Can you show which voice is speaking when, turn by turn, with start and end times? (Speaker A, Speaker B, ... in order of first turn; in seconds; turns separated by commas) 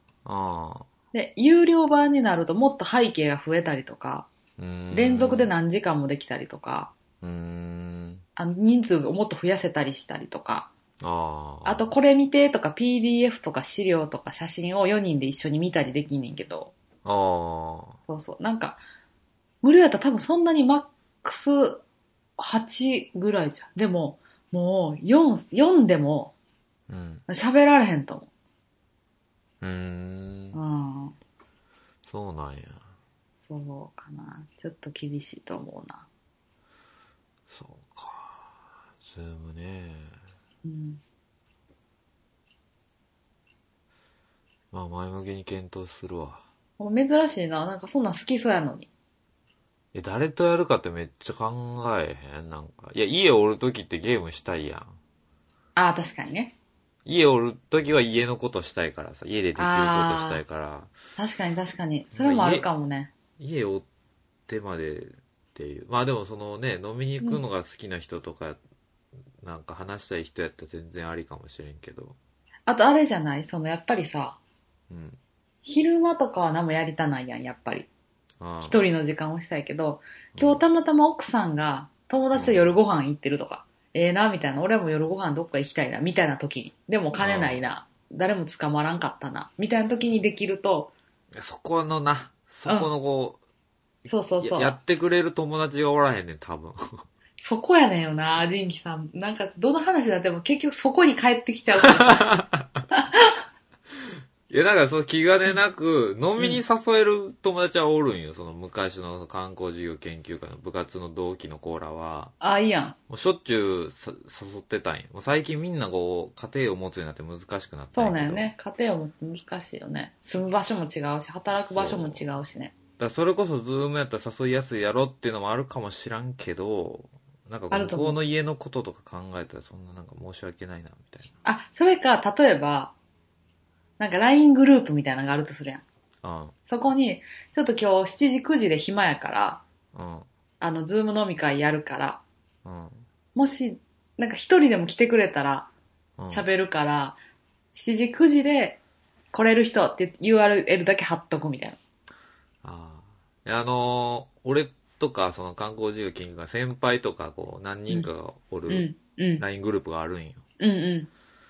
Speaker A: 0.2-0.9, Speaker B: 1.1-4.3, Speaker A: 4.6-5.5, Speaker B: 4.9-6.9, Speaker A: 7.2-8.2, Speaker B: 8.4-10.7, Speaker A: 11.0-11.9, Speaker B: 11.7-16.7, Speaker A: 17.1-18.0, Speaker B: 18.1-18.8, Speaker B: 19.6-21.8, Speaker B: 22.4-26.3, Speaker A: 26.9-27.2, Speaker B: 27.3-28.3, Speaker A: 29.6-30.6, Speaker B: 30.5-31.1, Speaker A: 32.1-32.8, Speaker B: 33.4-36.1, Speaker A: 37.5-38.5, Speaker A: 39.0-40.2, Speaker B: 40.6-41.0, Speaker A: 44.7-46.4, Speaker B: 46.8-48.9, Speaker A: 49.9-54.9, Speaker B: 55.8-56.5, Speaker A: 57.1-60.9, Speaker B: 59.6-60.4, Speaker B: 61.2-63.1, Speaker A: 62.1-62.7, Speaker A: 63.4-63.9, Speaker A: 64.5-68.6, Speaker A: 69.4-72.2, Speaker B: 72.7-74.4, Speaker A: 74.9-75.2, Speaker B: 75.6-77.9, Speaker A: 78.4-78.8, Speaker B: 78.6-90.9, Speaker A: 80.3-80.6, Speaker A: 82.3-82.7, Speaker A: 87.2-87.6, Speaker A: 91.3-93.4, Speaker B: 94.1-94.8, Speaker A: 94.4-97.0, Speaker B: 97.4-102.4, Speaker A: 101.8-102.8, Speaker B: 102.9-103.4, Speaker A: 104.5-112.3, Speaker B: 112.4-113.0, Speaker A: 113.1-118.5, Speaker B: 117.9-122.7, Speaker A: 121.6-122.2, Speaker A: 123.0-131.3, Speaker B: 127.7-128.2, Speaker B: 131.4-132.9, Speaker B: 134.0-135.8, Speaker A: 136.2-136.6, Speaker B: 136.7-139.6, Speaker A: 139.9-140.3, Speaker B: 140.6-142.2, Speaker A: 142.7-143.1, Speaker B: 143.3-145.7, Speaker A: 146.2-146.5, Speaker B: 146.3-147.2, Speaker B: 147.8-148.8, Speaker B: 149.3-151.8, Speaker A: 152.6-160.4, Speaker B: 158.7-159.4, Speaker B: 160.6-161.1